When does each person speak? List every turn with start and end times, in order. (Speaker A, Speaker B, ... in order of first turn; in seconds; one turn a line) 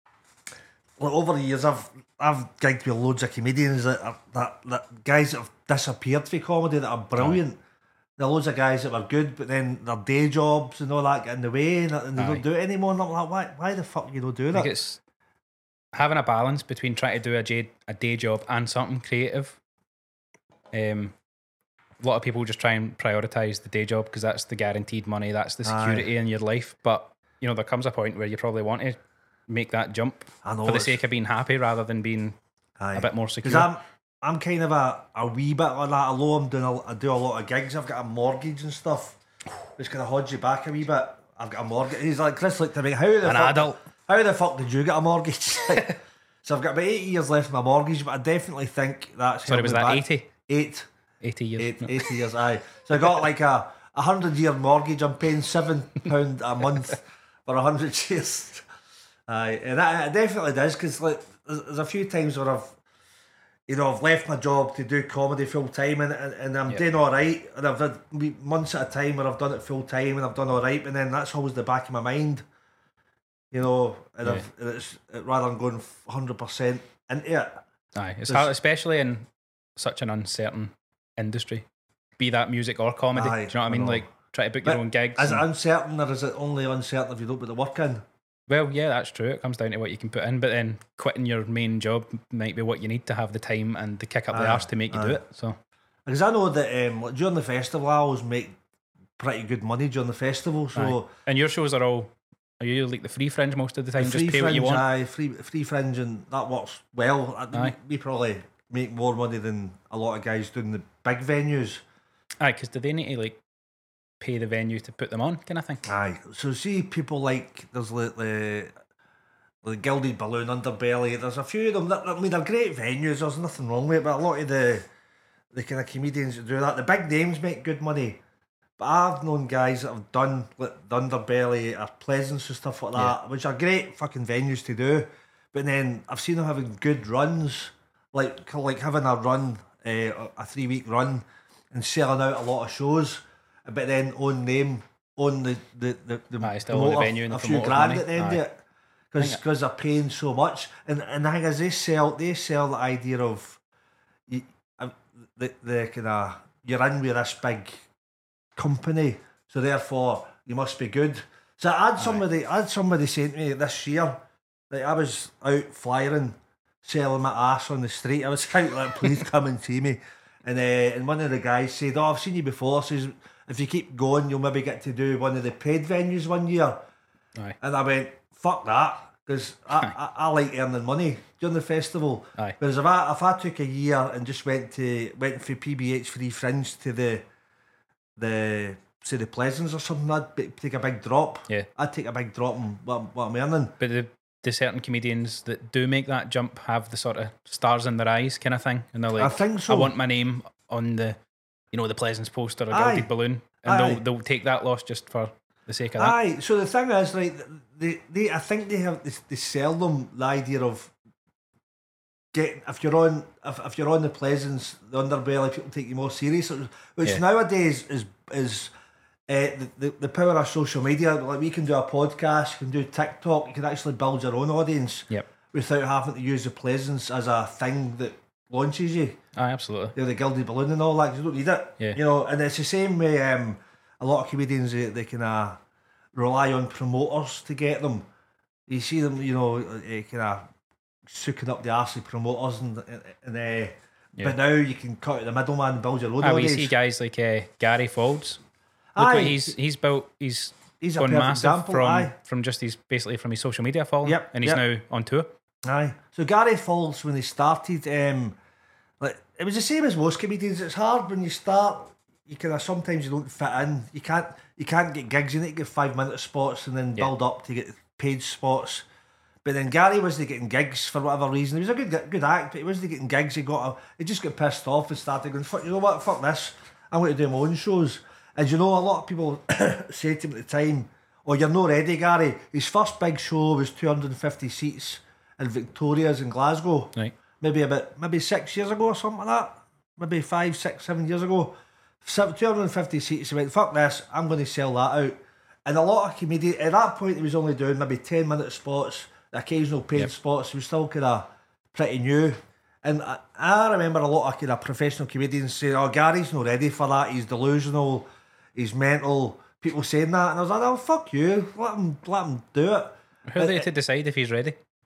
Speaker A: 1.0-7.6
Speaker A: 8.2-14.7
Speaker B: 12.2-12.4
Speaker B: 14.5-15.0
Speaker B: 15.9-19.6
Speaker B: 20.7-21.1
Speaker B: 22.0-29.0
Speaker A: 25.6-26.1
Speaker B: 29.5-32.4
Speaker A: 30.4-31.0
Speaker A: 32.8-39.2
Speaker B: 32.9-33.7
Speaker A: 39.8-50.9
Speaker B: 43.2-43.8
Speaker B: 49.5-50.3
Speaker B: 51.2-52.1
Speaker A: 51.6-58.6
Speaker A: 59.3-62.7
Speaker A: 63.7-72.4
Speaker A: 73.5-77.6
Speaker B: 77.9-81.6
Speaker B: 82.2-85.4
Speaker A: 83.1-84.0
Speaker A: 84.6-88.0
Speaker B: 88.5-95.6
Speaker A: 94.3-95.2
Speaker A: 96.0-98.5
Speaker A: 99.2-101.1
Speaker B: 100.7-104.8
Speaker A: 104.0-111.8
Speaker B: 112.4-113.4
Speaker B: 114.2-115.9
Speaker A: 115.8-118.7
Speaker A: 119.6-124.8
Speaker A: 125.5-128.2
Speaker A: 128.8-148.6
Speaker B: 146.4-148.4
Speaker A: 149.1-153.6
Speaker A: 154.3-157.8
Speaker A: 158.6-164.2
Speaker A: 164.7-176.8
Speaker A: 177.6-187.2
Speaker A: 188.2-193.7
Speaker B: 193.8-201.2
Speaker A: 199.2-199.9
Speaker B: 201.7-206.2
Speaker A: 202.7-203.1
Speaker A: 203.6-204.0
Speaker A: 206.0-210.9
Speaker A: 212.3-218.7
Speaker A: 219.3-229.2
Speaker B: 229.3-229.9
Speaker A: 229.9-235.6
Speaker A: 236.1-238.1
Speaker A: 238.7-240.5
Speaker A: 241.1-246.7
Speaker B: 246.2-248.4
Speaker A: 248.9-249.5
Speaker B: 249.0-255.3
Speaker A: 250.8-252.1
Speaker A: 254.0-254.6
Speaker A: 255.6-258.4
Speaker A: 259.0-268.9
Speaker A: 269.4-313.6
Speaker B: 313.3-314.6